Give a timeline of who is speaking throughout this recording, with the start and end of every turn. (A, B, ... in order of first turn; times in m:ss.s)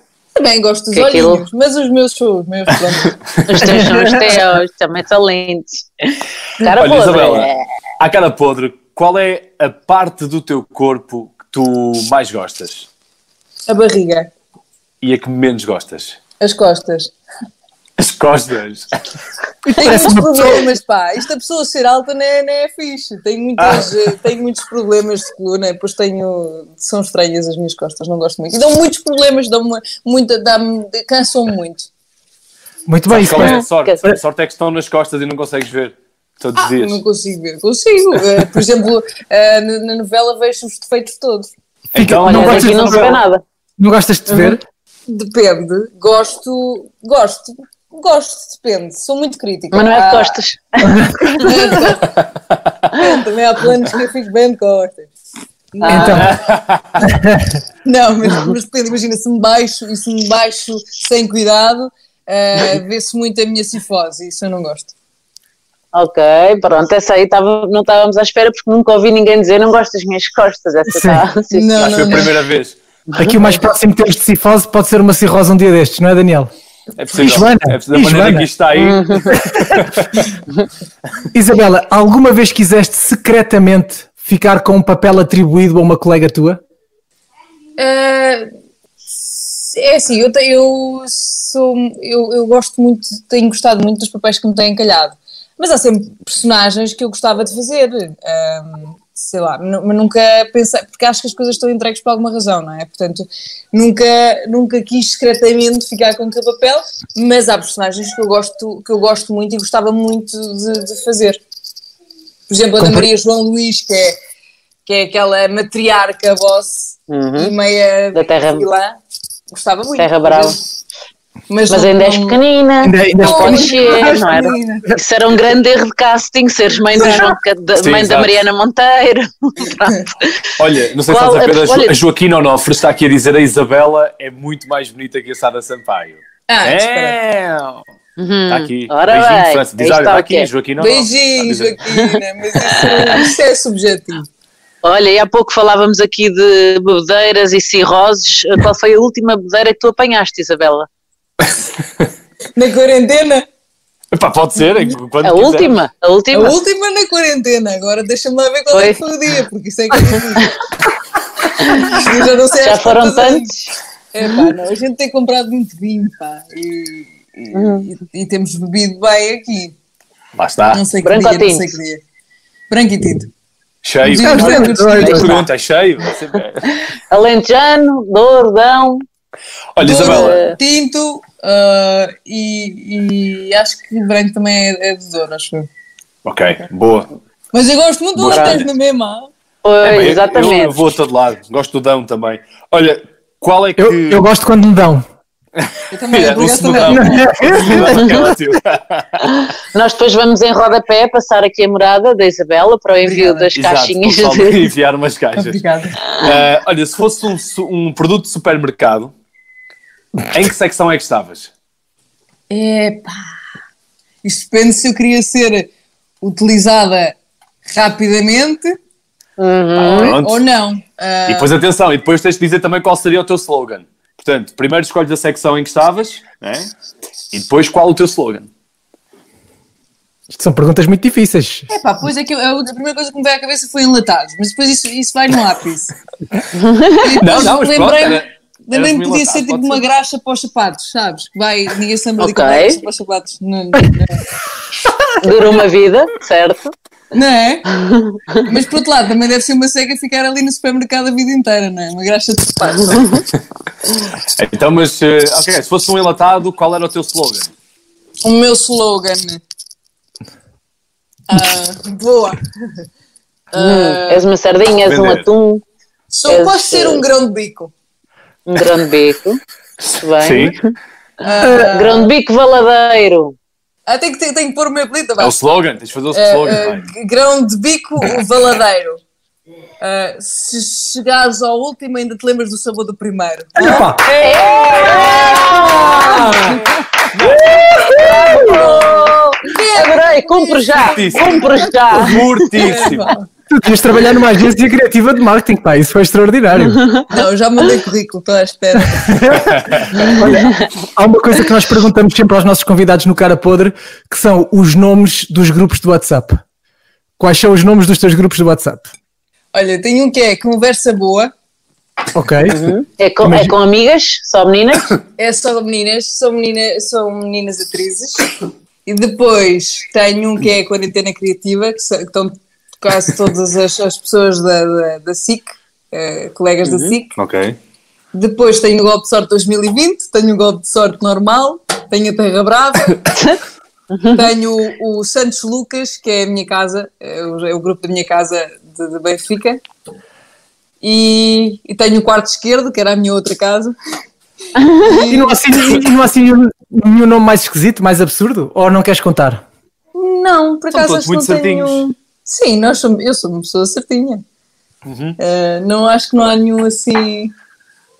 0:00.4-0:03.2 A
0:00.9-0:01.4 B
0:03.4-0:05.9 B
0:03.6-0:04.2 C
0:06.6-0:07.6 B
0:06.8-0:12.9 D
0:13.7-0:14.3 A
0:15.0-0:16.2 D
0:16.4-0:17.1 A
0:18.0-0:18.9 D
0:19.6-0:20.7 C
0:19.8-0:31.9 A
0:23.6-0:23.9 D
0:32.9-0:34.2 C
0:33.1-0:37.0 D
0:33.4-0:34.0 B
0:36.6-0:41.5 A
0:41.9-0:43.1 D
0:41.9-0:43.2 C
0:42.2-0:43.4 B
0:43.8-0:44.6 C
0:44.3-0:44.6 B
0:45.1-0:50.4 A
0:49.7-0:51.5 B
0:50.8-0:51.6 C
0:51.4-0:52.2 A
0:52.9-0:55.1 A
0:55.7-0:56.4 A
0:55.8-0:56.3 B
0:55.9-0:56.3 C
0:56.2-0:57.0 D
0:57.0-0:57.5 C
0:57.8-1:04.9 A
1:05.9-1:12.1 B
1:10.9-1:11.2 C
1:11.5-1:12.3 A
1:11.8-1:12.8 D
1:13.1-1:16.5 C
1:17.0-1:20.2 D
1:17.1-1:18.5 C
1:18.8-1:19.3 B
1:19.3-1:19.9 C
1:21.3-1:26.6 C
1:27.8-1:28.5 A
1:29.1-1:51.4 A
1:52.5-1:54.2 A
1:52.8-1:53.1 C
1:54.8-1:59.0 A
1:57.1-1:57.5 B
1:58.1-1:58.7 B
1:59.5-2:00.6 A
2:00.0-2:00.6 B
2:01.5-2:02.4 A
2:01.7-2:10.4 B
2:02.8-2:05.0 C
2:03.2-2:04.9 A
2:06.9-2:07.3 A
2:07.8-2:08.4 D
2:10.6-2:17.8 D
2:11.1-2:12.0 B
2:16.5-2:17.2 A
2:18.2-2:20.5 B
2:18.5-2:21.8 D
2:20.8-2:24.3 A
2:22.6-2:23.2 B
2:24.8-2:30.9 B
2:31.4-2:32.0 D
2:32.5-2:33.4 A
2:34.1-2:35.8 D
2:35.2-2:36.6 B
2:36.3-2:40.6 A
2:38.7-2:39.0 B
2:41.6-2:43.5 A
2:41.6-2:42.0 B
2:42.5-2:43.7 B
2:44.1-2:49.7 A
2:47.5-2:47.9 B
2:50.4-2:50.8 D
2:50.7-2:52.0 A
2:51.0-2:51.8 B
2:52.7-2:53.3 A
2:53.8-2:56.6 D
2:54.0-2:55.4 A
2:54.1-2:55.4 C
2:57.1-2:59.0 B
2:59.7-3:00.4 D
2:59.8-3:05.7 A
2:59.9-3:00.6 B
3:06.2-3:07.1 D
3:07.5-3:09.3 A
3:08.2-3:08.7 D
3:08.3-3:08.6 B
3:09.6-3:10.8 B
3:09.8-3:14.2 D
3:13.8-3:15.0 C
3:15.6-3:19.2 D
3:15.9-3:17.9 A
3:16.9-3:18.3 C
3:19.4-3:24.7 B
3:23.0-3:23.5 A
3:23.6-3:29.1 D
3:25.4-3:26.0 A
3:30.2-3:31.5 D
3:32.5-3:33.2 A
3:34.2-3:35.7 A
3:36.2-3:37.2 A
3:37.7-3:38.8 A
3:39.4-3:40.2 B
3:39.8-3:40.4 D
3:40.0-3:41.5 A
3:41.3-3:46.7 D
3:47.3-3:48.5 D
3:50.3-3:51.7 C
3:51.7-3:55.9 A
3:56.5-3:57.1 B
3:57.0-4:04.2 A
3:57.2-3:59.8 D
4:02.2-4:02.8 B
4:05.2-4:06.7 B
4:07.1-4:07.7 A
4:07.9-4:08.4 B
4:08.4-4:13.2 A
4:12.9-4:13.2 B
4:14.3-4:17.5 D
4:18.2-4:19.4 A
4:21.3-4:22.4 A
4:23.5-4:24.2 A
4:23.5-4:25.6 B
4:24.8-4:25.2 D
4:26.1-4:27.7 A
4:26.3-4:27.0 B
4:28.5-4:29.4 B
4:30.0-4:30.7 B
4:30.2-4:30.5 D
4:31.2-4:32.1 A
4:31.4-4:33.3 B
4:33.9-4:35.3 A
4:35.2-4:36.9 D
4:36.1-4:39.0 A
4:39.8-4:46.6 A
4:43.6-4:44.0 C
4:44.2-4:46.4 B
4:47.1-4:48.0 D
4:47.6-4:52.4 B
4:47.9-4:53.3 A
4:50.8-4:53.1 D
4:53.5-4:56.8 C
4:56.7-4:57.1 B
4:57.1-4:59.2 A
4:58.8-5:06.4 C
4:59.9-5:00.6 B
5:07.2-5:08.9 C
5:09.5-5:11.3 A
5:12.1-5:13.5 C
5:12.5-5:14.9 B
5:15.2-5:18.3 A
5:18.8-5:27.1 A
5:26.6-5:27.0 B
5:27.2-5:27.6 D
5:28.1-5:33.1 A
5:33.1-5:33.4 B
5:33.9-5:34.3 B
5:34.1-5:39.6 A
5:40.8-5:43.7 A
5:44.6-5:45.0 B
5:44.8-5:45.8 A
5:45.1-5:49.4 C
5:49.9-5:54.2 A
5:50.7-5:51.8 D
5:54.8-5:55.2 D
5:55.2-5:57.3 A